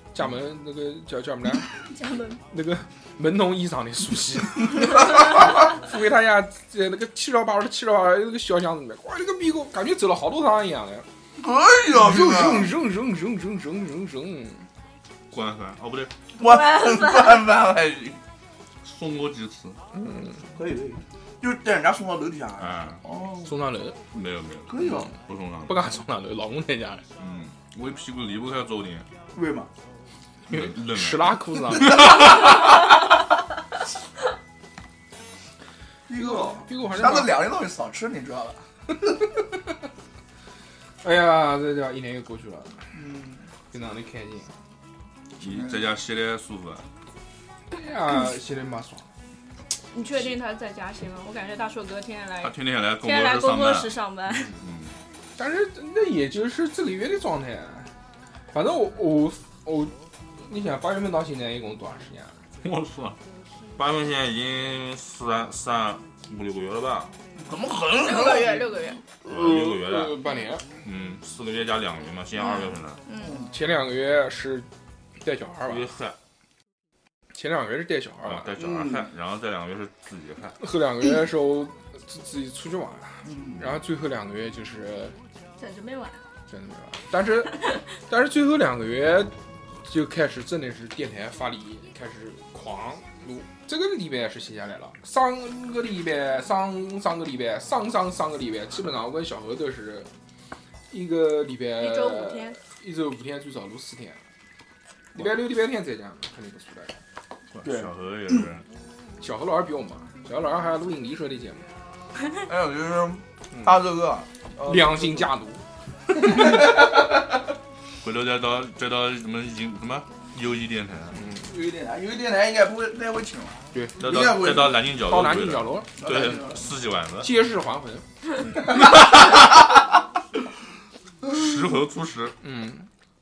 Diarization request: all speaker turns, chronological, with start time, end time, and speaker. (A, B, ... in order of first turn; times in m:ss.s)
0:00.1-0:01.7 A
0:01.9-0:02.4 B
0:02.5-0:11.1 A
0:11.4-0:12.7 C
0:11.9-0:14.7 A
0:15.3-0:16.2 D
0:16.4-0:18.2 C
0:16.4-0:17.5 B
0:18.8-0:19.8 D
0:19.9-0:20.5 A
0:20.5-0:23.5 C
0:22.6-0:23.0 D
0:23.4-0:24.0 A
0:24.1-0:25.9 D
0:24.7-0:25.1 C
0:25.7-0:27.0 A
0:27.2-0:29.1 D
0:29.3-0:29.7 C
0:30.5-0:32.2 A
0:30.5-0:32.2 D
0:32.0-0:32.6 C
0:36.1-0:38.6 C
0:36.2-0:37.4 A
0:41.0-0:42.8 A
0:42.9-0:43.5 C
0:43.7-0:44.5 A
0:45.4-0:45.8 C
0:45.4-0:46.9 D
0:47.7-0:49.1 A
0:49.9-0:54.6 B
0:52.4-0:53.9 D
0:54.5-0:55.0 D
0:55.4-0:57.9 A
0:58.5-0:59.9 A
1:00.5-1:02.4 A
1:02.6-1:03.2 D
1:03.8-1:07.1 D
1:07.4-1:08.7 C
1:08.0-1:09.0 B
1:09.2-1:10.6 A
1:09.2-1:10.2 D
1:10.8-1:13.0 D
1:12.5-1:13.4 B
1:13.2-1:13.5 C
1:13.4-1:14.7 A
1:15.2-1:15.9 A
1:15.7-1:16.2 D
1:17.3-1:18.5 A
1:18.2-1:20.6 D
1:18.6-1:19.1 C
1:20.6-1:25.1 A
1:23.2-1:23.7 C
1:25.6-1:26.2 B
1:26.5-1:29.3 A
1:29.8-1:40.1 A
1:40.9-1:44.2 A
1:41.8-1:42.6 B
1:45.2-1:46.9 A
1:47.5-1:48.6 D
1:47.6-1:48.4 C
1:49.2-1:51.7 A
1:52.5-1:55.3 C
1:54.6-1:55.6 A
1:56.2-1:57.3 C
1:58.0-2:01.2 D
2:01.2-2:01.5 A
2:01.4-2:04.9 C
2:03.7-2:04.0 A
2:04.0-2:07.3 D
2:05.0-2:05.9 A
2:06.0-2:06.6 C
2:07.2-2:08.0 A
2:08.4-2:09.1 D
2:08.8-2:09.1 C
2:11.2-2:12.4 D
2:12.4-2:12.9 A